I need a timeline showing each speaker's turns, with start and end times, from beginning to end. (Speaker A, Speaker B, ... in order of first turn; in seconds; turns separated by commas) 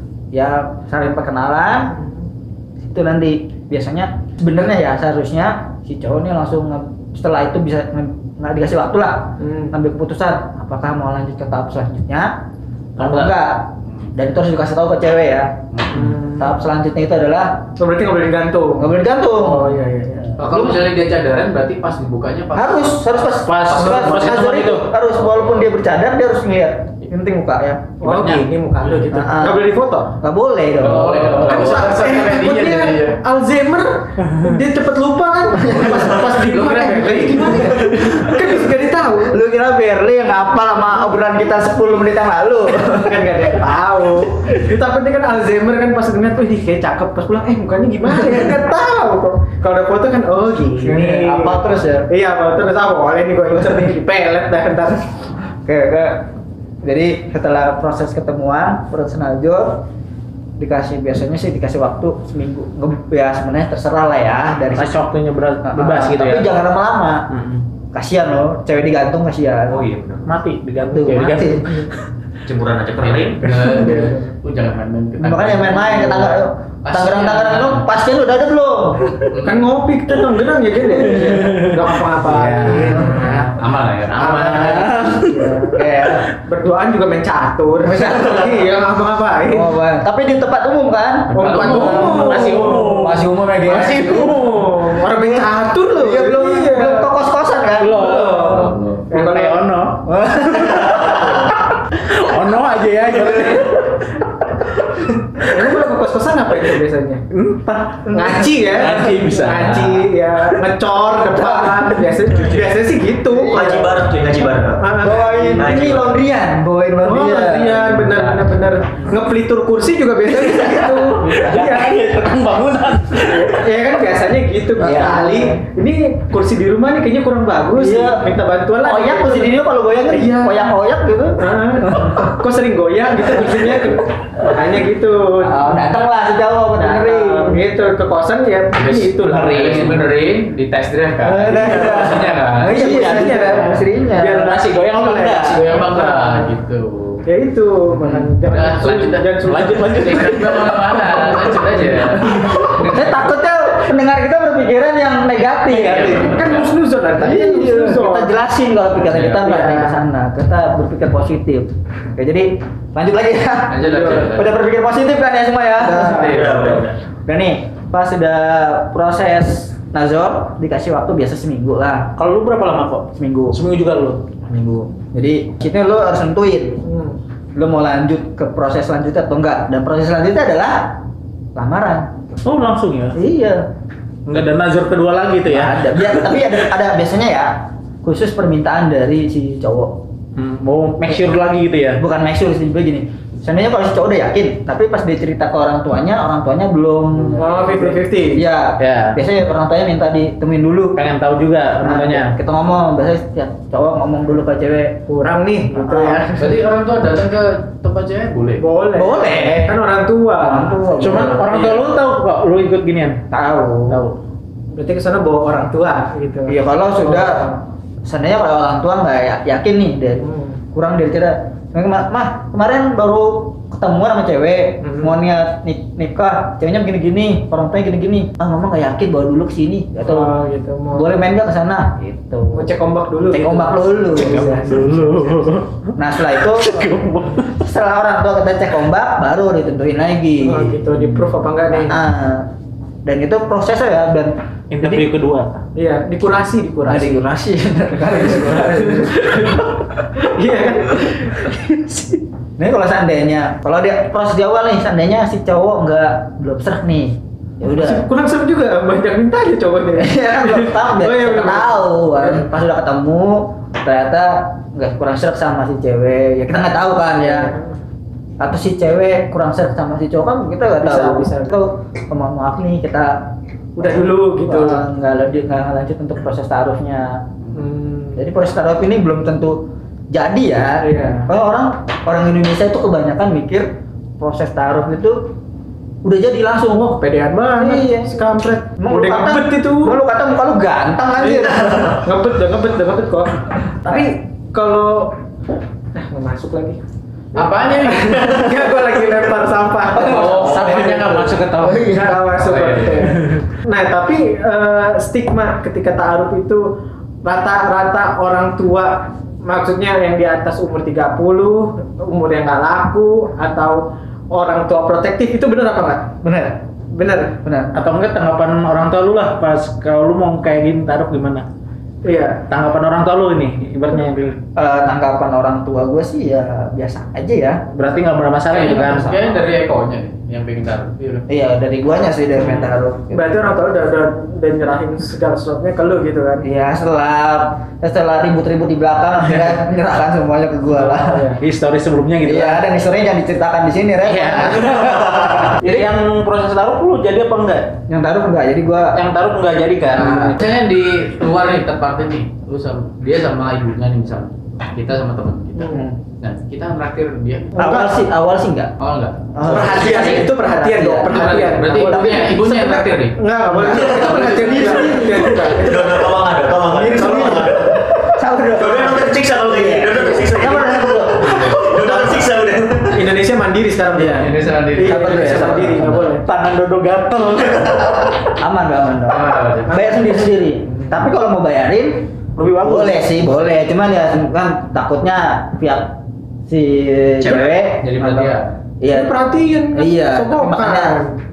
Speaker A: 0.3-1.9, Speaker A: 2.8-12.4, Speaker B: 9.4-9.7, Speaker A: 13.0-15.6, Speaker C: 13.0-13.3, Speaker D: 15.7-16.1, Speaker B: 15.9-16.5, Speaker A: 16.3-17.7, Speaker B: 17.8-20.2, Speaker A: 18.8-20.8, Speaker D: 20.4-24.2, Speaker A: 22.5-28.0, Speaker C: 23.4-24.9, Speaker B: 28.0-30.1, Speaker D: 28.0-29.0, Speaker A: 29.1-31.5, Speaker D: 30.8-33.2, Speaker B: 30.9-39.4, Speaker C: 31.1-31.8, Speaker A: 35.6-38.1, Speaker D: 36.1-37.6, Speaker A: 39.2-43.4, Speaker B: 42.9-55.0, Speaker A: 50.8-52.1, Speaker A: 55.6-56.3, Speaker A: 56.8-59.8, Speaker A: 60.6-65.0, Speaker C: 64.7-66.5, Speaker A: 65.7-67.3, Speaker C: 67.3-67.6, Speaker A: 67.9-69.9, Speaker E: 69.7-70.3, Speaker C: 70.2-71.9, Speaker A: 70.8-71.9, Speaker E: 72.4-73.5, Speaker D: 73.0-77.9, Speaker C: 73.6-73.8, Speaker B: 73.8-74.2, Speaker A: 75.2-79.2, Speaker D: 79.3-79.7, Speaker B: 79.4-83.5, Speaker C: 81.0-83.4, Speaker D: 82.8-84.9, Speaker A: 82.9-83.3, Speaker B: 84.1-85.8, Speaker C: 84.4-85.7, Speaker A: 84.4-86.3, Speaker B: 86.4-89.7, Speaker A: 87.8-88.6, Speaker A: 89.5-94.2, Speaker D: 91.3-92.6, Speaker B: 91.3-93.0, Speaker C: 91.6-95.0, Speaker B: 93.7-97.1, Speaker A: 95.2-98.5, Speaker C: 97.8-100.0, Speaker B: 98.0-99.6, Speaker D: 98.4-99.1, Speaker A: 100.0-101.5, Speaker C: 100.5-101.1, Speaker B: 101.1-101.5, Speaker C: 101.9-104.2, Speaker C: 104.8-105.4, Speaker B: 105.4-107.2, Speaker C: 107.3-110.6, Speaker B: 108.1-114.1, Speaker C: 111.6-112.5, Speaker A: 113.3-113.6, Speaker E: 113.3-115.0, Speaker B: 114.7-116.0, Speaker A: 114.9-118.1, Speaker E: 115.5-116.2, Speaker B: 117.0-122.0, Speaker D: 118.0-118.5, Speaker A: 120.3-121.3, Speaker C: 121.1-123.7, Speaker B: 123.1-130.7, Speaker A: 124.8-125.6, Speaker A: 127.7-132.2, Speaker B: 131.4-135.8, Speaker A: 135.4-137.7, Speaker B: 136.8-140.0, Speaker D: 138.7-142.8, Speaker C: 139.2-140.0, Speaker A: 141.2-144.5, Speaker B: 141.4-146.5, Speaker C: 143.1-143.4, Speaker C: 144.3-145.7, Speaker D: 145.5-147.2, Speaker B: 147.2-150.2, Speaker D: 148.0-153.2, Speaker C: 149.4-152.8, Speaker A: 152.6-156.5, Speaker D: 155.7-156.7, Speaker B: 156.0-158.3, Speaker A: 157.1-172.2, Speaker D: 158.9-159.5, Speaker B: 159.4-160.0, Speaker D: 163.7-164.6, Speaker B: 163.8-164.2, Speaker D: 165.8-166.8, Speaker B: 165.8-166.3, Speaker E: 166.1-166.9, Speaker C: 172.2-174.2, Speaker A: 173.1-173.6, Speaker A: 174.4-176.8, Speaker B: 176.8-177.2, Speaker A: 177.5-181.0, Speaker A: 181.5-182.2, Speaker C: 182.4-183.2, Speaker A: 183.1-183.7, Speaker C: 184.2-185.8, Speaker A: 185.5-190.0, Speaker C: 190.3-192.0, Speaker A: 192.0-201.0, Speaker D: 197.1-198.0, Speaker B: 197.4-198.4, Speaker C: 198.8-199.2, Speaker C: 200.9-202.3, Speaker A: 201.8-205.0, Speaker B: 205.1-206.5, Speaker A: 205.7-206.2, Speaker D: 206.3-208.6, Speaker B: 208.6-210.9, Speaker A: 208.9-209.8, Speaker A: 210.4-211.9, Speaker C: 211.0-213.2, Speaker A: 213.3-214.0, Speaker C: 213.9-214.1, Speaker B: 214.7-217.6, Speaker A: 216.5-230.3, Speaker B: 220.2-220.6, Speaker B: 224.8-225.1, Speaker B: 230.0-231.1, Speaker A: 230.9-232.8, Speaker B: 232.5-234.8, Speaker A: 233.3-236.9, Speaker C: 234.1-237.6, Speaker A: 237.4-242.5, Speaker B: 240.4-242.0, Speaker A: 243.0-245.1, Speaker C: 244.7-245.6, Speaker B: 245.7-247.3, Speaker A: 246.8-249.6, Speaker B: 248.1-251.9, Speaker A: 252.6-258.1, Speaker B: 257.7-262.4, Speaker A: 259.9-267.5, Speaker B: 267.2-267.7, Speaker A: 268.4-277.2, Speaker B: 270.8-271.6, Speaker B: 273.8-274.8, Speaker B: 277.5-278.2, Speaker A: 278.1-285.3, Speaker B: 280.8-281.3, Speaker A: 286.0-286.9, Speaker B: 286.7-290.0, Speaker A: 287.5-288.2, Speaker A: 288.8-292.1, Speaker B: 291.2-295.2, Speaker B: 295.9-296.8, Speaker D: 297.3-298.5, Speaker B: 297.4-301.1, Speaker A: 299.9-302.2, Speaker C: 300.0-301.9, Speaker D: 300.0-300.7, Speaker B: 301.8-306.7, Speaker D: 302.4-303.1, Speaker B: 307.2-316.1, Speaker A: 316.2-316.6, Speaker B: 316.9-317.4, Speaker A: 317.4-317.7, Speaker C: 317.7-321.5, Speaker B: 322.0-322.4, Speaker C: 322.5-324.4, Speaker A: 324.5-327.6, Speaker C: 327.7-329.1, Speaker D: 328.5-331.2, Speaker A: 328.6-329.4, Speaker A: 331.3-333.3, Speaker B: 332.4-336.4, Speaker A: 336.4-341.3, Speaker B: 340.7-341.4, Speaker C: 341.4-342.6, Speaker A: 342.2-345.9, Speaker C: 344.0-347.7, Speaker A: 347.9-349.0, Speaker C: 348.9-350.4, Speaker A: 349.9-350.4, Speaker D: 350.4-357.6, Speaker B: 355.6-355.9, Speaker A: 355.7-356.0, Speaker B: 357.6-358.0, Speaker A: 357.6-358.7, Speaker D: 358.8-359.2, Speaker A: 359.3-362.3, Speaker B: 359.4-366.2, Speaker E: 359.5-360.2, Speaker D: 361.1-363.2, Speaker A: 363.4-365.5, Speaker E: 363.7-367.8, Speaker D: 364.0-364.4, Speaker A: 366.6-372.0, Speaker E: 368.6-373.1, Speaker B: 372.9-376.2, Speaker A: 374.0-374.2, Speaker D: 374.0-375.9, Speaker A: 374.8-376.1, Speaker C: 376.2-378.1, Speaker A: 378.4-386.0, Speaker D: 379.1-379.8, Speaker B: 379.7-380.0, Speaker C: 382.4-383.3, Speaker A: 386.5-389.2, Speaker D: 387.3-388.5, Speaker B: 388.9-391.1, Speaker A: 389.7-391.0